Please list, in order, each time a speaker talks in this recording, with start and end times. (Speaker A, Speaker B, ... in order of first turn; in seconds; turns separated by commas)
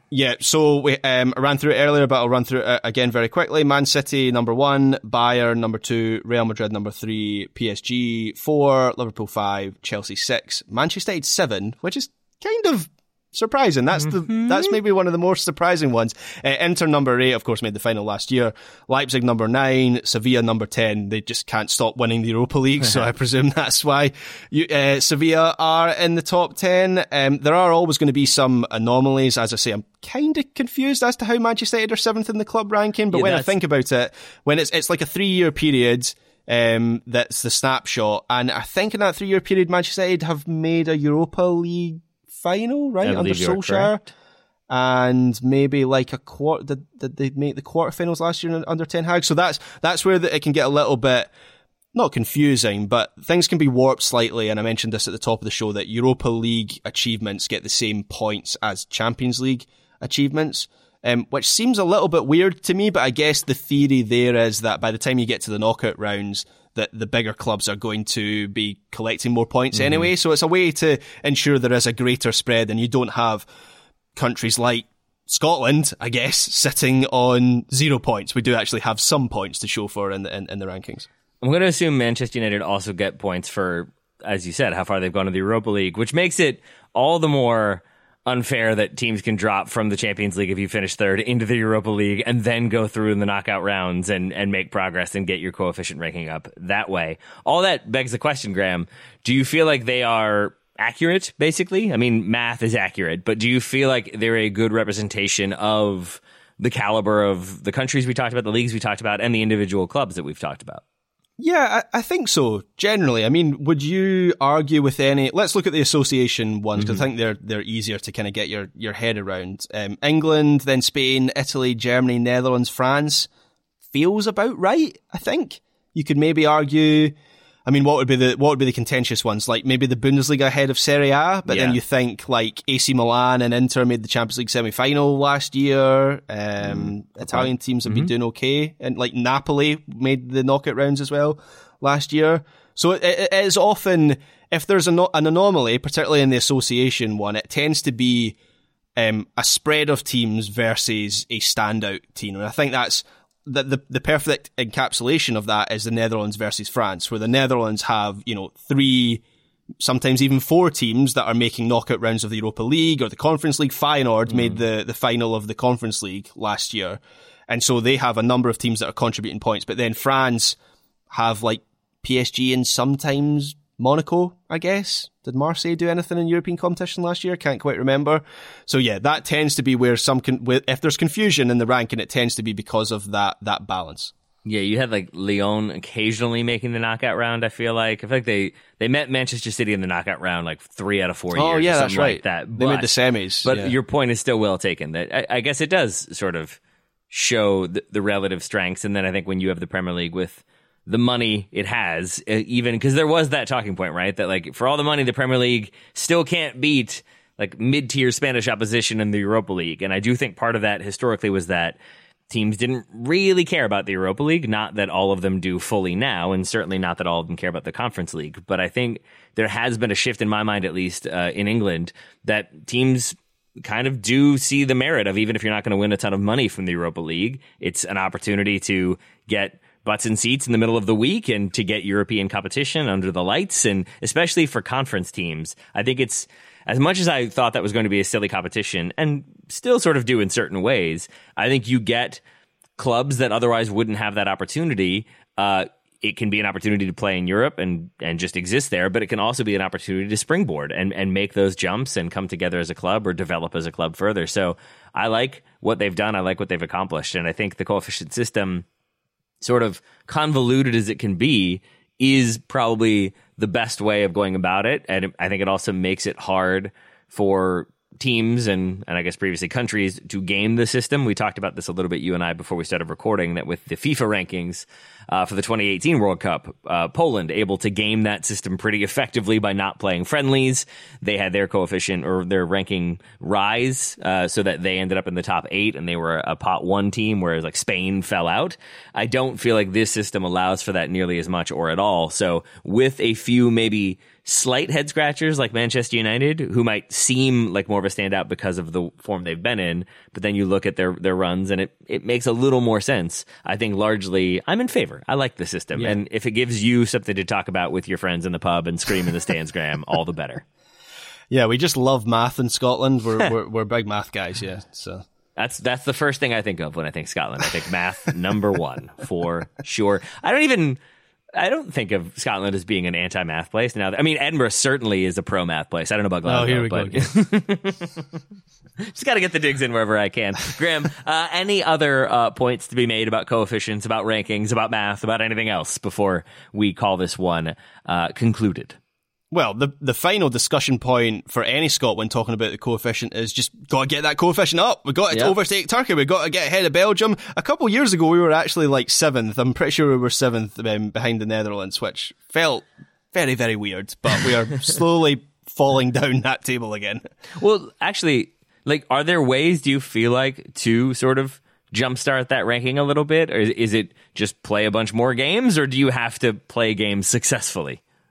Speaker A: 0.1-44.0, Speaker B: 33.1-33.5, Speaker B: 43.0-43.9, Speaker A: 44.7-51.3, Speaker A: 51.9-73.5, Speaker A: 74.1-81.1, Speaker B: 81.4-110.8, Speaker A: 111.4-123.3, Speaker B: 116.8-117.0, Speaker A: 123.9-127.1, Speaker A: 127.7-148.4, Speaker B: 131.5-131.8, Speaker B: 136.6-138.1, Speaker A: 148.9-159.2, Speaker A: 159.8-170.6, Speaker B: 164.3-164.6, Speaker A: 171.1-184.1, Speaker B: 184.4-192.9, Speaker A: 191.3-193.7, Speaker B: 193.4-196.6, Speaker B: 197.1-211.8, Speaker B: 212.3-242.2, Speaker B: 242.8-258.6, Speaker B: 259.4-310.4, Speaker A: 311.3-315.0, Speaker B: 315.4-320.8, Speaker B: 321.4-328.0, Speaker A: 326.3-327.1, Speaker B: 328.8-338.8, Speaker A: 339.3-357.0, Speaker B: 357.4-367.8